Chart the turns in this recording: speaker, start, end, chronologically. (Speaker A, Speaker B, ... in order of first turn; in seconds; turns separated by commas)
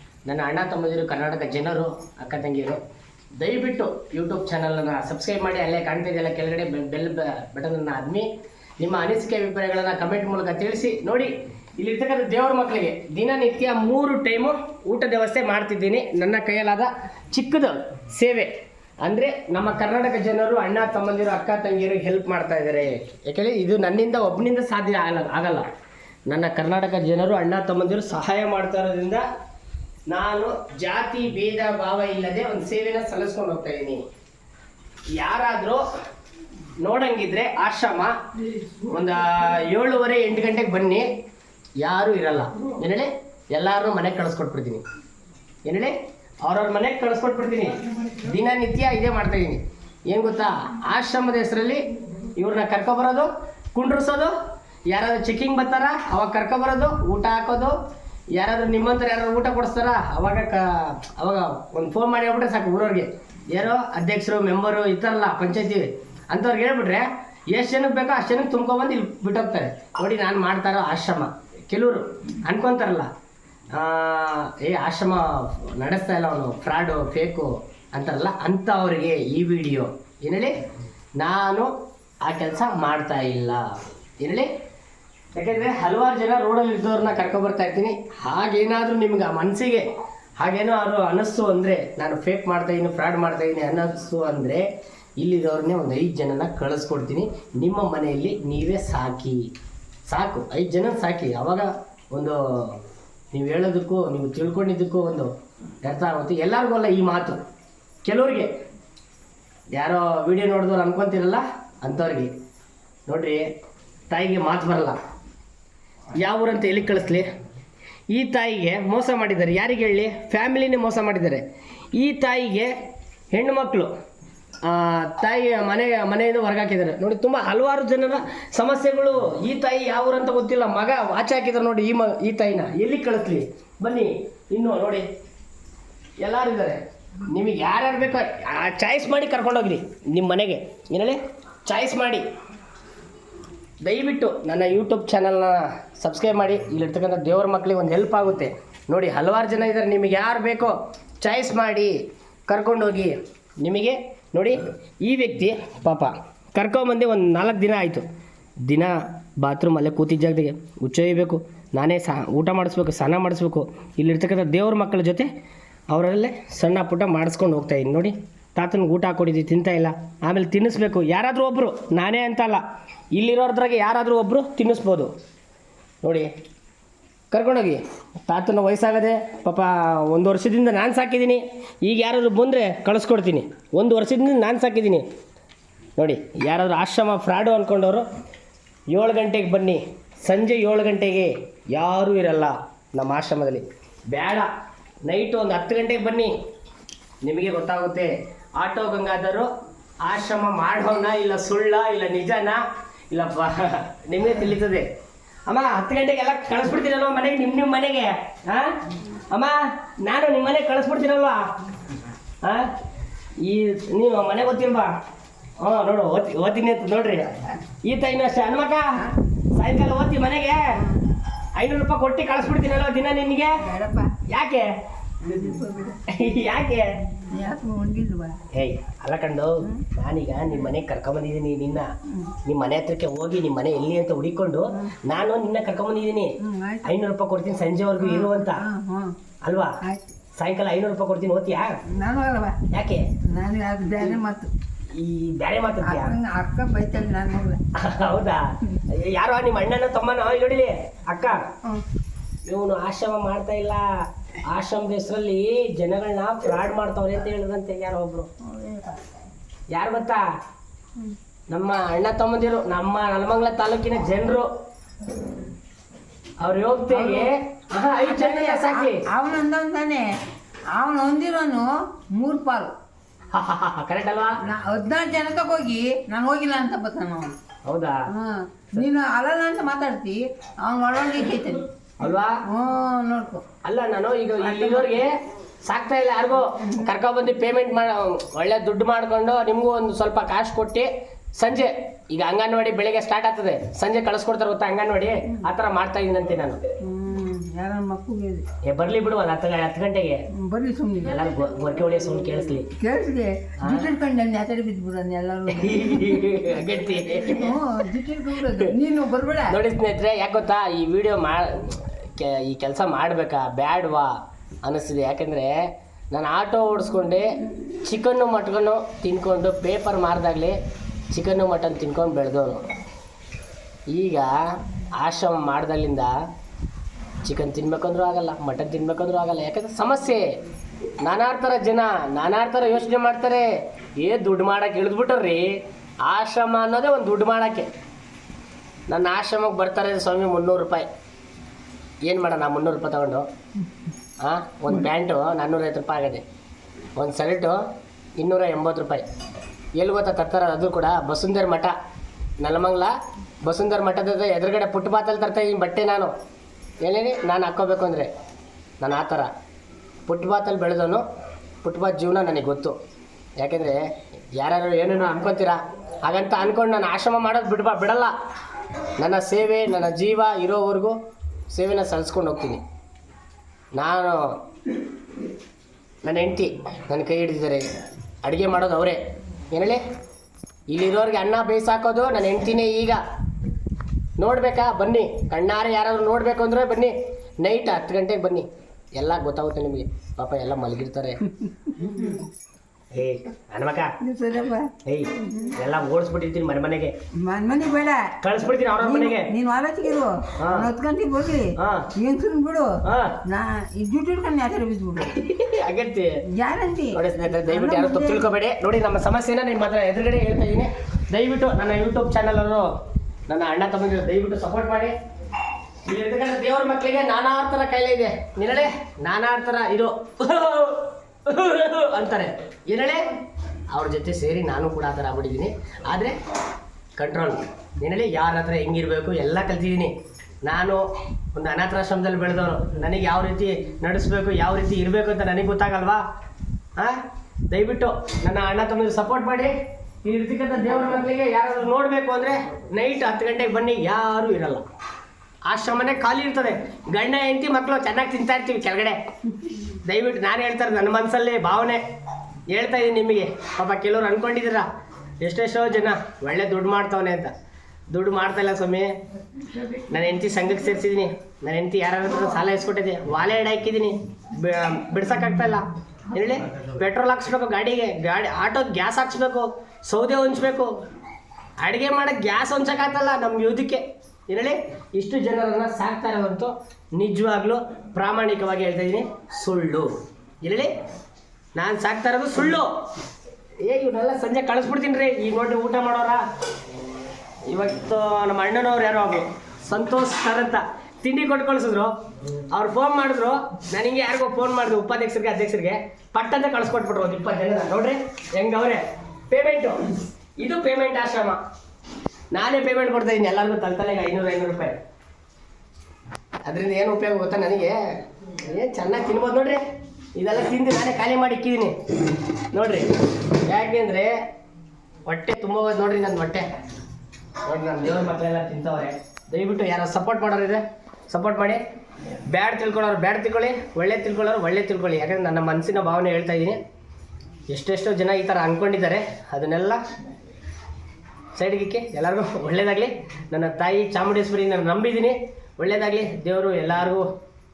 Speaker A: 0.2-2.8, Speaker A: 3.4-18.5, Speaker A: 19.0-25.7, Speaker A: 26.3-29.2, Speaker A: 30.1-34.0, Speaker A: 35.2-35.9, Speaker A: 36.8-38.1, Speaker A: 38.8-41.0, Speaker A: 41.8-44.8, Speaker A: 45.6-54.3, Speaker A: 54.9-57.7, Speaker A: 58.4-73.1, Speaker A: 73.7-80.5, Speaker A: 81.2-81.7, Speaker A: 82.2-83.6, Speaker A: 84.2-84.5, Speaker A: 85.3-89.8, Speaker A: 90.4-94.6, Speaker A: 95.2-99.4, Speaker A: 100.1-102.8, Speaker A: 103.3-105.3, Speaker A: 105.8-107.4, Speaker A: 108.0-108.5, Speaker A: 109.7-112.3, Speaker A: 113.1-113.4, Speaker A: 114.1-115.0, Speaker A: 116.2-117.2, Speaker A: 118.1-121.4, Speaker A: 122.0-122.7, Speaker A: 123.3-123.9, Speaker A: 124.6-135.0, Speaker A: 136.2-142.2, Speaker A: 143.8-151.9, Speaker A: 152.5-158.1, Speaker A: 158.7-165.3, Speaker A: 165.9-175.1, Speaker A: 176.0-176.3, Speaker A: 177.3-185.1, Speaker A: 186.0-188.1, Speaker A: 188.9-194.5, Speaker A: 195.0-196.3, Speaker A: 197.2-199.5, Speaker A: 200.0-204.8, Speaker A: 205.5-208.8, Speaker A: 209.3-211.5, Speaker A: 212.4-212.7, Speaker A: 213.4-214.9, Speaker A: 215.6-219.0, Speaker A: 219.5-220.8, Speaker B: 220.7-221.0, Speaker A: 221.6-223.5, Speaker B: 223.6-224.2, Speaker A: 224.3-224.7, Speaker B: 225.2-226.0, Speaker A: 226.1-226.9, Speaker B: 227.2-228.4, Speaker A: 228.5-231.9, Speaker B: 232.1-232.3, Speaker A: 232.4-238.6, Speaker B: 236.4-236.9, Speaker B: 238.0-239.1, Speaker A: 239.4-239.8, Speaker B: 239.8-240.1, Speaker A: 240.3-241.8, Speaker B: 241.9-242.6, Speaker A: 242.7-243.1, Speaker B: 243.3-244.5, Speaker A: 244.9-246.1, Speaker B: 245.8-247.6, Speaker A: 247.7-251.4, Speaker A: 252.4-258.3, Speaker B: 258.4-259.0, Speaker A: 259.7-260.2, Speaker A: 261.5-264.5, Speaker A: 266.4-269.0, Speaker B: 266.9-267.3, Speaker B: 268.0-270.1, Speaker B: 270.7-272.7, Speaker A: 273.3-274.4, Speaker B: 274.4-277.3, Speaker A: 277.6-278.0, Speaker B: 278.1-281.7, Speaker A: 282.0-282.4, Speaker B: 282.5-283.4, Speaker A: 283.6-296.6, Speaker B: 284.6-284.9, Speaker B: 296.8-298.4, Speaker A: 298.6-300.2, Speaker B: 300.3-301.2, Speaker A: 301.0-302.7, Speaker B: 302.8-309.6, Speaker A: 303.6-303.9, Speaker A: 305.5-307.6, Speaker A: 308.4-308.7, Speaker A: 309.5-320.6, Speaker A: 321.1-322.6, Speaker A: 323.9-324.3, Speaker A: 325.0-326.1, Speaker A: 327.2-330.2, Speaker A: 331.0-333.5, Speaker A: 334.0-337.7, Speaker A: 338.9-340.9, Speaker A: 342.1-343.2, Speaker A: 344.2-346.2, Speaker A: 346.9-347.6, Speaker A: 348.2-349.0, Speaker A: 349.8-351.7, Speaker A: 352.4-356.1, Speaker A: 356.8-358.1, Speaker A: 358.8-359.3, Speaker A: 360.1-361.0, Speaker A: 361.6-362.8, Speaker A: 363.4-363.8, Speaker A: 364.4-368.1, Speaker A: 369.0-370.9, Speaker A: 371.5-372.6, Speaker A: 373.8-374.3, Speaker A: 376.0-377.6, Speaker A: 378.2-379.0, Speaker A: 379.5-379.8, Speaker A: 380.7-383.0, Speaker A: 384.2-391.2, Speaker B: 391.4-392.2, Speaker A: 392.9-393.9, Speaker B: 394.0-395.5, Speaker A: 394.8-396.9, Speaker B: 397.2-398.1, Speaker A: 398.2-399.3, Speaker B: 398.8-405.2, Speaker A: 400.4-400.7, Speaker A: 401.6-401.9, Speaker A: 402.8-403.2, Speaker A: 405.1-406.1, Speaker B: 406.3-408.2, Speaker A: 406.9-412.7, Speaker A: 413.3-414.9, Speaker A: 415.9-423.1, Speaker A: 423.7-426.1, Speaker A: 427.0-429.9, Speaker A: 430.4-430.8, Speaker A: 431.3-436.0, Speaker A: 436.8-444.6, Speaker A: 445.5-451.8, Speaker A: 452.5-454.7, Speaker A: 455.2-457.3, Speaker A: 457.9-458.9, Speaker A: 459.5-470.7, Speaker A: 471.6-479.9, Speaker A: 480.4-480.7, Speaker A: 481.6-482.7, Speaker A: 483.6-486.2, Speaker A: 487.5-491.9, Speaker A: 492.5-499.8, Speaker A: 500.4-501.4, Speaker A: 502.3-504.8, Speaker A: 506.4-507.8, Speaker A: 508.3-509.6, Speaker A: 510.1-511.8, Speaker A: 512.5-514.1, Speaker A: 515.1-516.5, Speaker A: 517.4-521.6, Speaker A: 522.3-526.6, Speaker A: 527.5-529.8, Speaker A: 531.3-537.0